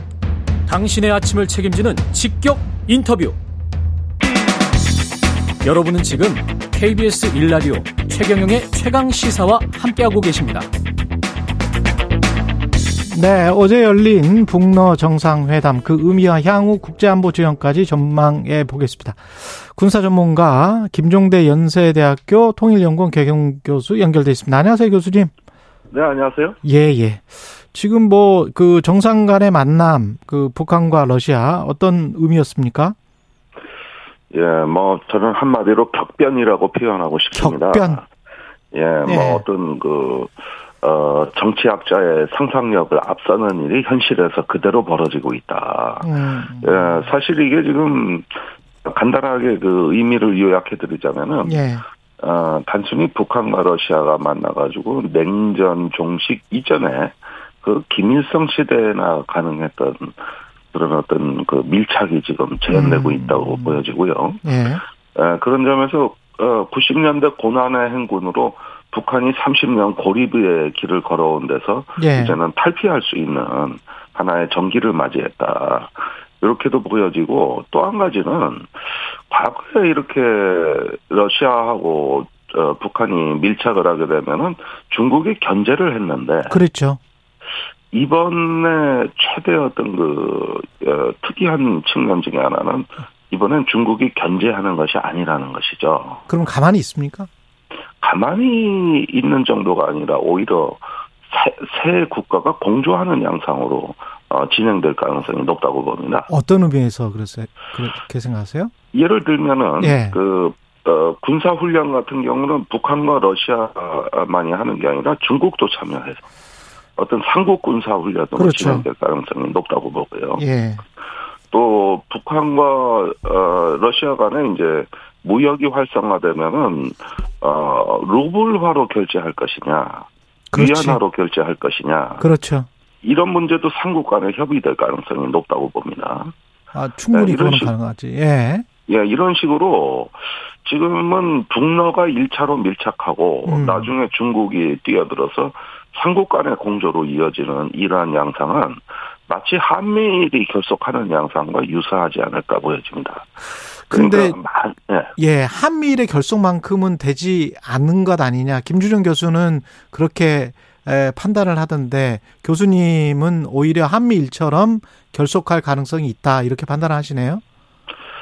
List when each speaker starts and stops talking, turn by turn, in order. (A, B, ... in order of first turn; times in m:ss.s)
0:00.6-0:03.4 A
0:05.6-0:10.7 A
0:13.1-0:25.3 B
0:25.9-0:26.6 C
0:26.6-0:33.0 B
0:34.3-0:38.0 C
0:37.3-0:38.0 B
0:38.7-0:46.1 C
0:39.0-0:39.4 B
0:46.0-0:47.1 B
0:46.6-0:48.3 C
0:48.8-0:51.6 C
0:51.4-0:51.8 B
0:52.2-1:00.2 C
1:00.7-1:04.4 C
1:02.7-1:03.8 B
1:04.4-1:04.8 B
1:05.1-1:18.7 C
1:12.0-1:12.4 B
1:19.3-1:26.6 C
1:26.5-1:27.0 B
1:27.9-1:36.2 C
1:36.3-1:37.3 B
1:38.0-1:46.3 C
1:46.3-1:48.7 B
1:48.9-1:56.2 C
1:49.8-1:50.2 B
1:57.0-2:00.4 C
1:58.4-1:58.9 B
2:00.4-2:00.8 B
2:01.5-2:12.3 C
2:10.5-2:11.0 B
2:12.2-2:12.7 B
2:13.0-2:16.3 C
2:16.7-2:18.6 B
2:17.1-2:17.7 C
2:18.9-2:33.3 C
2:23.4-2:23.9 B
2:33.8-2:34.4 B
2:33.9-2:35.1 C
2:35.2-2:47.4 B